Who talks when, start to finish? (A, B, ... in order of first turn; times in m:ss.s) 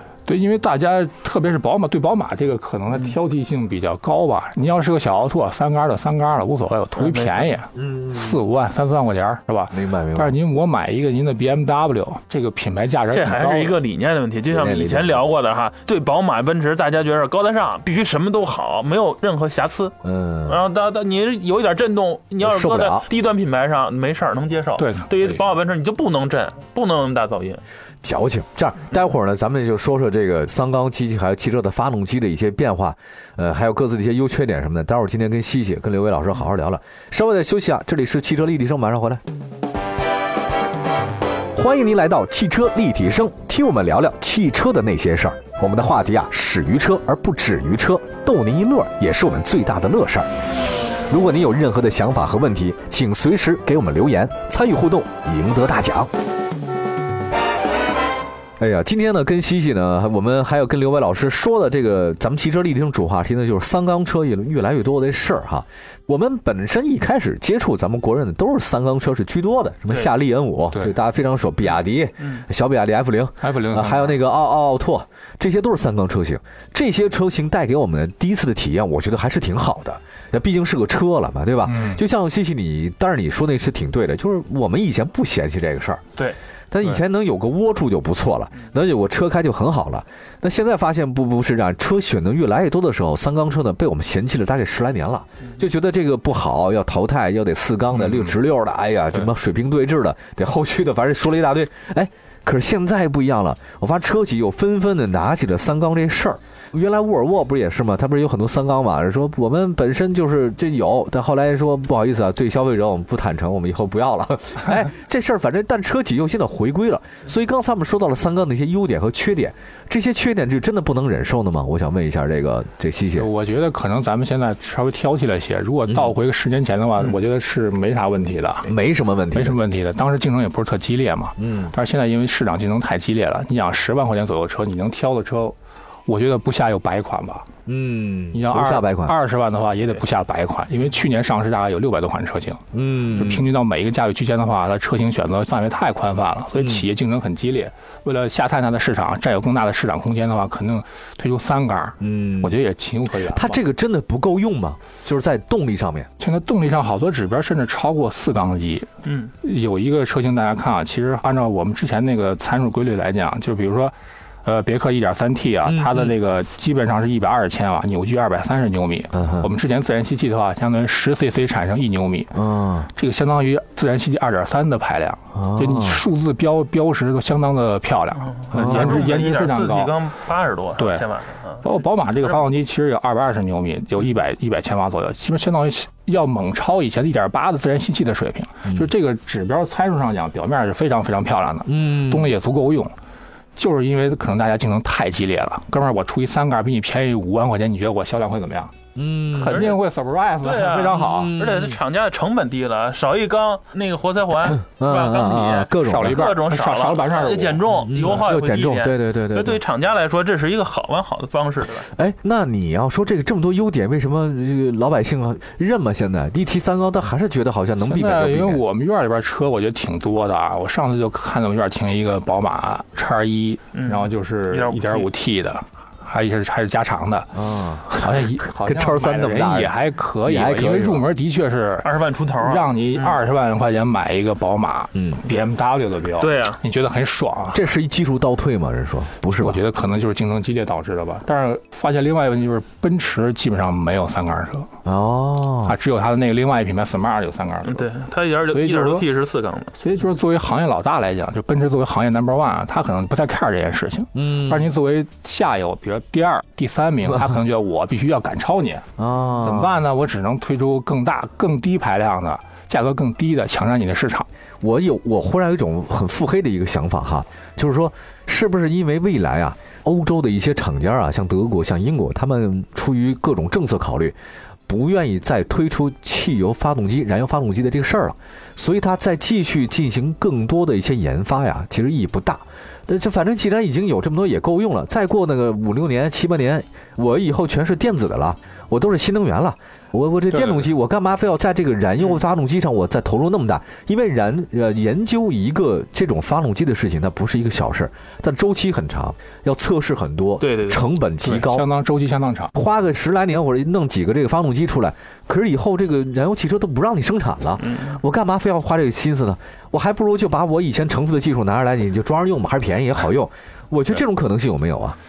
0:00.2-0:13.8 A
0:07.0-0:07.6 B
0:07.8-0:08.4 C
0:09.7-0:10.3 C
0:13.1-0:19.9 B
0:14.5-0:15.3 C
0:20.0-0:20.6 C
0:20.5-0:27.6 B
0:22.4-0:23.1 C
0:24.8-0:25.1 A
0:28.0-0:39.2 C
0:41.5-0:50.3 C
0:51.1-0:56.1 C
0:58.6-1:26.0 C
1:13.4-1:14.2 A
1:21.6-1:22.0 A
1:26.7-2:03.3 C
1:37.9-1:38.4 A
2:03.2-2:08.7 A
2:08.6-2:09.6 C
2:09.3-2:15.6 A
2:11.4-2:11.7 C
2:16.1-2:17.5 A
2:17.6-2:19.1 C
2:18.3-2:22.6 A
2:22.7-2:23.4 C
2:23.1-2:33.6 A
2:32.0-2:32.5 C
2:33.3-2:36.1 C
2:36.2-2:38.9 A
2:39.0-2:39.3 B
2:39.4-2:43.9 A
2:44.4-2:52.3 A
2:45.6-2:46.1 C
2:49.1-2:49.5 C
2:52.3-2:52.9 C
2:52.9-3:00.0 A
2:55.3-2:56.0 C
2:58.3-3:02.4 B
2:58.5-2:59.0 C
3:00.8-3:01.0 A
3:01.6-3:12.9 A
3:11.6-3:12.3 C
3:13.6-3:18.7 A
3:18.9-3:19.7 C
3:19.3-3:21.4 A
3:19.4-3:19.8 B
3:20.4-3:31.9 B
3:20.9-3:21.8 C
3:24.6-3:26.3 C
3:25.8-3:28.2 A
3:27.8-3:29.6 C
3:31.9-3:38.6 C
3:37.8-3:47.3 A
3:43.7-3:45.1 B
3:47.3-3:51.1 C
3:47.9-3:57.6 A
3:51.8-3:53.2 B
3:54.9-3:55.2 C
3:56.2-3:56.6 B
3:57.5-3:59.6 C
3:59.3-4:04.7 A
4:04.8-4:05.8 C
4:05.6-4:07.9 A
4:07.6-4:09.7 B
4:08.5-4:09.1 A
4:09.8-4:18.8 A
4:14.1-4:14.7 C
4:19.0-4:19.8 C
4:19.4-4:24.3 A
4:24.6-4:34.2 C
4:34.7-5:01.6 C
4:50.3-4:50.6 B
5:00.4-5:00.8 B
5:01.2-5:02.5 A
5:02.5-5:15.0 C
5:07.6-5:08.0 B